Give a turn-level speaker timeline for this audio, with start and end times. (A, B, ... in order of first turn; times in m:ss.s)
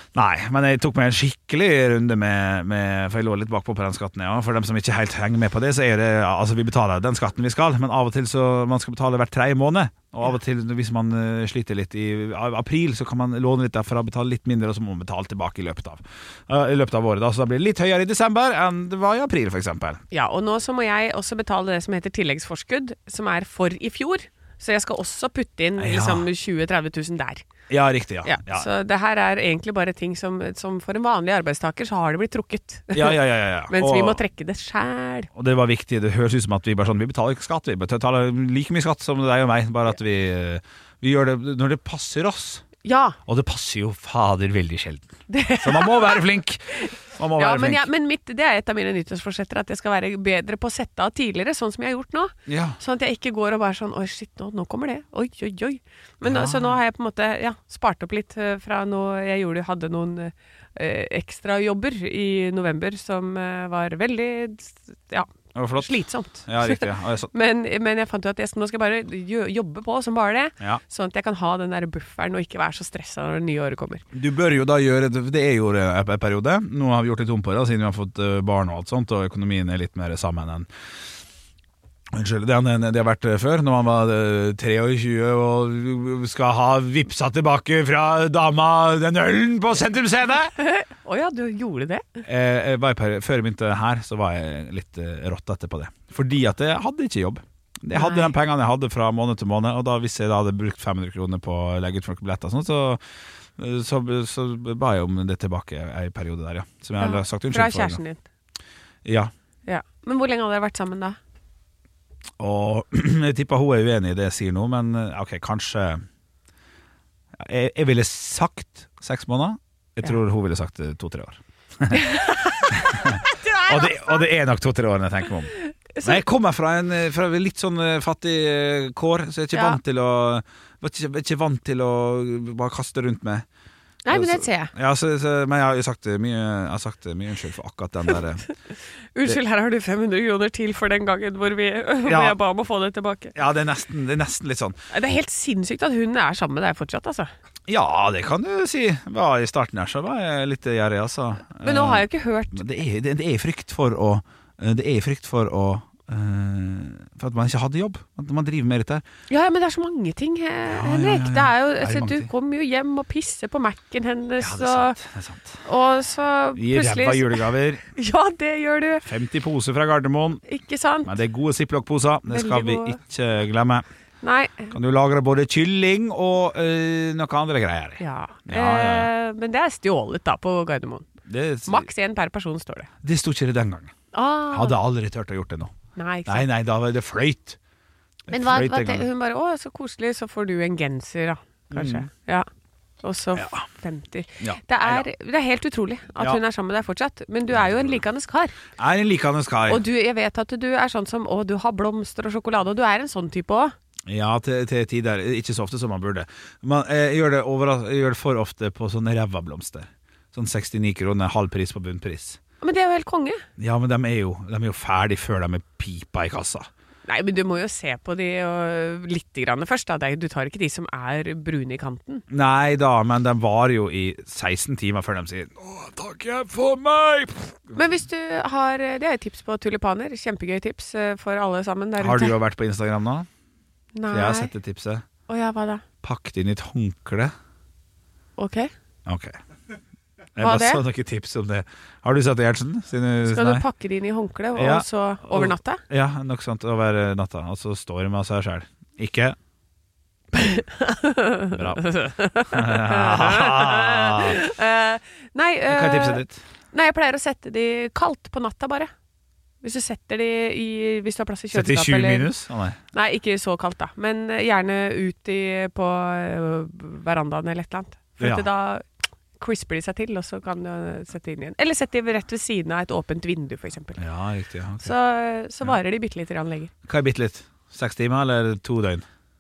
0:00.2-0:20.0 A
0:20.1-0:27.4 B
0:25.8-0:26.3 A
0:27.7-0:28.7 A
0:28.3-0:35.3 B
0:32.9-0:34.2 A
0:35.4-0:42.6 A
0:42.8-0:43.2 B
0:43.3-0:47.9 A
0:45.3-0:46.2 B
0:46.8-1:06.8 B
0:52.5-0:52.8 A
0:56.2-0:56.8 A
1:05.6-1:07.3 A
1:07.3-1:14.0 B
1:14.1-1:20.7 A
1:22.1-1:30.5 A
1:30.6-1:32.2 B
1:32.2-1:43.0 A
1:38.0-1:38.3 B
1:43.6-1:48.0 A
1:47.0-1:48.2 B
1:49.0-1:49.3 A
1:49.7-1:51.2 B
1:52.4-1:56.0 A
1:57.4-2:13.4 A
2:02.0-2:04.2 B
2:05.9-2:06.2 B
2:14.1-2:14.7 B
2:14.1-2:18.4 A
2:19.2-2:23.3 B
2:22.1-2:22.4 A
2:23.4-2:24.8 A
2:24.9-2:27.3 B
2:27.7-2:39.0 A
2:31.6-2:32.6 B
2:39.3-2:45.0 B
2:40.7-2:42.3 A
2:44.4-2:45.6 A
2:45.6-2:49.0 B
2:46.6-2:47.8 A
2:49.0-2:50.4 A
2:50.5-2:51.1 B
2:51.0-2:53.8 A
2:52.3-2:53.0 B
2:54.2-2:54.7 B
2:54.7-2:59.1 A
2:58.0-3:01.1 B
3:01.3-3:01.9 A
3:01.7-3:02.9 B
3:03.0-3:04.0 A
3:04.1-3:04.8 B
3:04.5-3:07.6 A
3:06.0-3:06.4 B
3:08.3-3:09.1 A
3:08.3-3:12.5 B
3:11.7-3:12.1 A
3:13.0-3:18.6 B
3:13.3-3:13.7 A
3:14.4-3:15.1 A
3:17.6-3:18.0 A
3:18.8-3:19.8 A
3:19.7-3:23.7 B
3:24.1-3:32.4 A
3:32.6-3:33.4 B
3:33.6-3:36.7 A
3:37.1-3:42.2 B
3:42.3-3:47.9 A
3:47.8-3:52.3 B
3:52.0-3:53.3 A
3:54.0-3:54.5 B
3:54.1-3:55.1 A
3:55.3-3:55.8 B
3:56.0-3:57.3 A
3:58.4-3:58.7 B
3:59.1-3:59.4 A
4:00.4-4:03.6 A
4:00.4-4:00.8 B
4:03.3-4:05.8 B
4:04.6-4:09.4 A
4:10.3-4:16.2 B
4:11.5-4:11.8 A
4:12.5-4:14.4 A
4:15.7-4:16.4 A
4:16.7-4:18.9 B
4:19.6-4:22.3 B
4:21.5-4:22.8 A
4:22.9-4:28.9 B
4:28.2-4:28.5 A
4:29.4-4:34.0 B
4:34.0-4:34.9 A
4:34.8-4:36.7 B
4:36.9-4:39.1 A